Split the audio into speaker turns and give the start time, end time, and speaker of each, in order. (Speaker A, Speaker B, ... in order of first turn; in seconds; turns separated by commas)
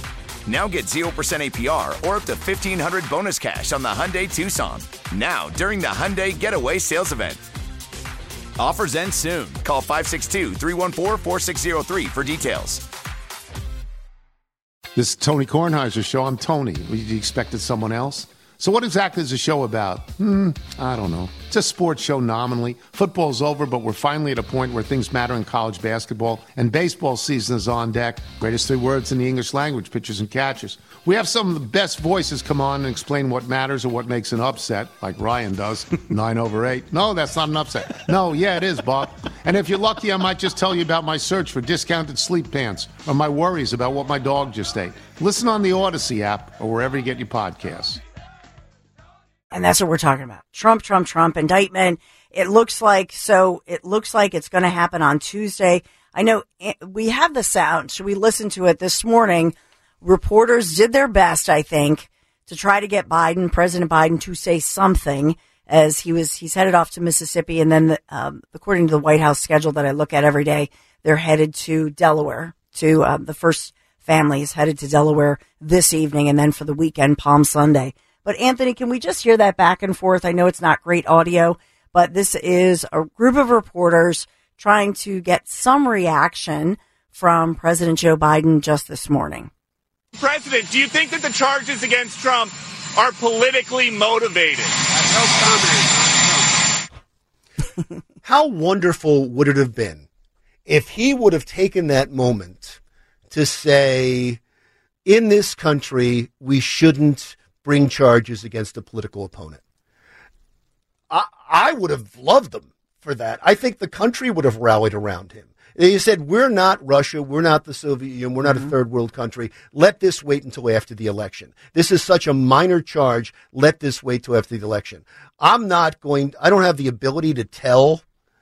Speaker A: 0.4-7.5, Speaker A: 8.6-12.8, Speaker B: 14.9-48.0, Speaker C: 49.5-89.5, Speaker D: 90.2-96.0, Speaker E: 98.2-100.0, Speaker E: 100.7-102.8, Speaker E: 103.3-104.4, Speaker E: 105.0-109.6, Speaker E: 111.1-128.0, Speaker C: 118.4-118.7